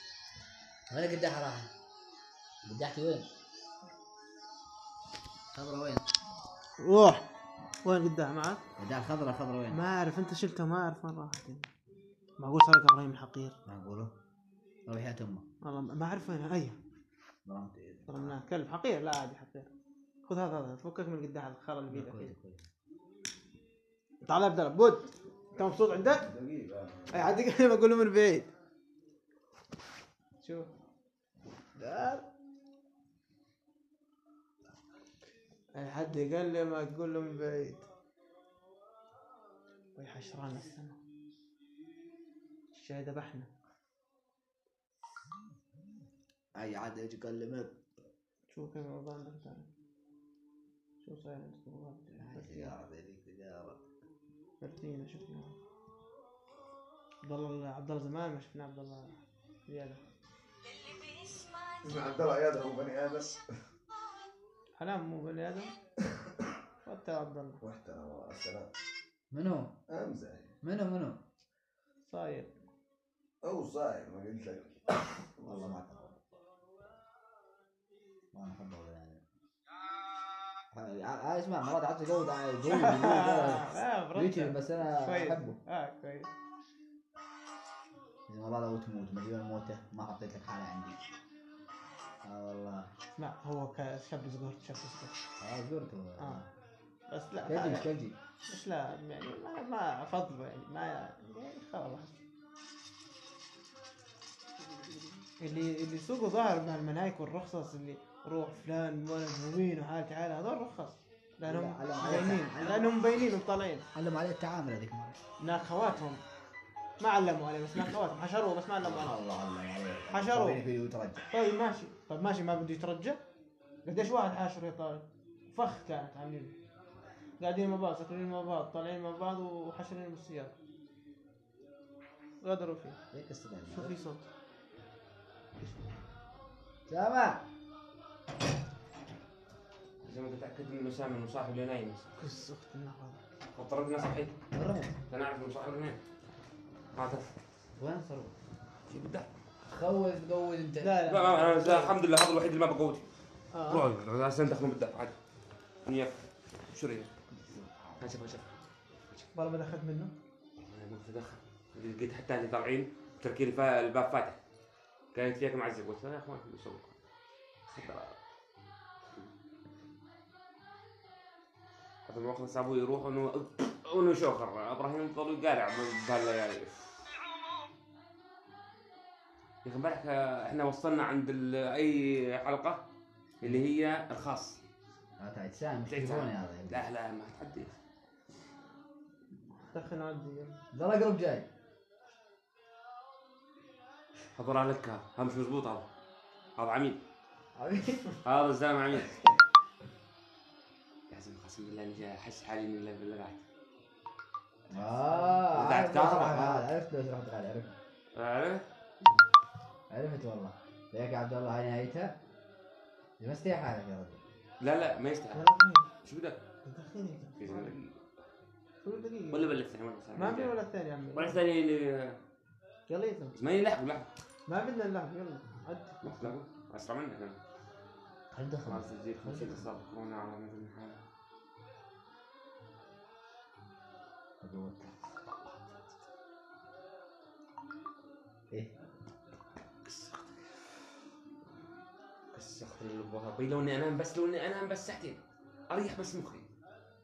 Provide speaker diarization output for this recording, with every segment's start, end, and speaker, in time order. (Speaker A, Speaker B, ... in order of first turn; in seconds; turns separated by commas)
Speaker A: 0.9-1.7, Speaker A: 2.6-3.3, Speaker A: 5.5-6.0, Speaker B: 6.8-7.2, Speaker B: 7.8-8.6, Speaker A: 8.8-9.8, Speaker B: 9.7-11.7, Speaker B: 12.4-13.5, Speaker A: 13.7-14.1, Speaker A: 14.9-15.4, Speaker B: 15.6-16.8, Speaker A: 17.4-18.4, Speaker B: 18.1-19.7, Speaker B: 20.2-22.3, Speaker A: 21.9-22.6, Speaker B: 24.2-26.3, Speaker C: 25.9-27.4, Speaker B: 27.1-28.5, Speaker B: 30.4-30.7, Speaker B: 31.8-32.2, Speaker B: 35.7-37.9, Speaker B: 40.0-41.0, Speaker B: 42.7-43.5, Speaker A: 46.5-47.7, Speaker B: 48.5-49.7, Speaker B: 51.0-52.7, Speaker A: 52.2-53.8, Speaker B: 54.6-55.6, Speaker B: 57.2-60.0, Speaker C: 61.8-63.4, Speaker B: 64.8-65.7, Speaker B: 66.8-67.6, Speaker C: 67.6-68.7, Speaker A: 69.3-69.7, Speaker C: 69.9-70.5, Speaker A: 70.6-71.2, Speaker B: 72.0-72.5, Speaker C: 73.4-75.7, Speaker A: 75.4-76.2, Speaker A: 78.3-79.2, Speaker A: 80.7-85.6, Speaker B: 82.7-86.3, Speaker A: 88.3-91.0, Speaker A: 92.2-92.9, Speaker B: 93.2-95.1, Speaker A: 95.4-96.5, Speaker B: 97.1-97.9, Speaker A: 97.5-98.2, Speaker B: 98.5-102.2, Speaker B: 105.4-113.8, Speaker A: 111.5-112.9, Speaker A: 113.9-115.2, Speaker B: 115.4-116.2, Speaker B: 117.0-119.2, Speaker A: 118.8-121.2, Speaker B: 120.1-120.6, Speaker B: 121.3-123.2, Speaker B: 123.8-126.5, Speaker B: 127.4-130.5, Speaker B: 132.4-133.0, Speaker A: 133.1-134.0, Speaker B: 133.7-134.3, Speaker A: 136.9-137.4, Speaker D: 140.0-142.1, Speaker B: 142.2-143.2, Speaker D: 143.5-144.4, Speaker A: 144.5-144.9, Speaker D: 145.1-146.0, Speaker D: 146.9-147.3, Speaker A: 147.8-148.3, Speaker D: 148.9-149.3, Speaker A: 149.7-150.9, Speaker B: 150.8-152.0, Speaker D: 151.0-153.1, Speaker B: 153.5-153.9, Speaker D: 153.7-155.2, Speaker D: 155.8-157.1, Speaker A: 157.6-158.1, Speaker D: 158.0-158.5, Speaker B: 159.3-160.1, Speaker D: 160.6-164.4, Speaker D: 165.1-166.9, Speaker D: 167.7-168.1, Speaker D: 172.1-177.1, Speaker D: 179.6-182.8, Speaker D: 183.4-184.6, Speaker A: 183.4-183.7, Speaker A: 185.2-186.8, Speaker D: 185.9-187.8, Speaker B: 189.7-190.6, Speaker A: 190.7-191.5, Speaker D: 194.3-195.8, Speaker D: 196.6-197.0, Speaker A: 197.6-198.2, Speaker D: 198.2-199.2, Speaker D: 201.1-203.4, Speaker A: 204.7-207.8, Speaker D: 205.5-206.7, Speaker D: 208.1-208.6, Speaker A: 209.9-212.2, Speaker A: 213.2-214.2, Speaker D: 214.6-215.5, Speaker B: 215.3-215.9, Speaker D: 216.0-216.4, Speaker B: 216.6-217.7, Speaker D: 217.4-217.9, Speaker B: 218.8-219.6, Speaker D: 219.3-220.6, Speaker B: 220.1-221.4, Speaker D: 221.1-222.2, Speaker B: 222.9-223.3, Speaker D: 223.3-224.1, Speaker B: 224.5-226.3, Speaker D: 226.0-227.4, Speaker A: 228.3-229.7, Speaker D: 228.6-231.0, Speaker A: 234.4-234.9, Speaker D: 239.8-240.3, Speaker D: 242.3-246.5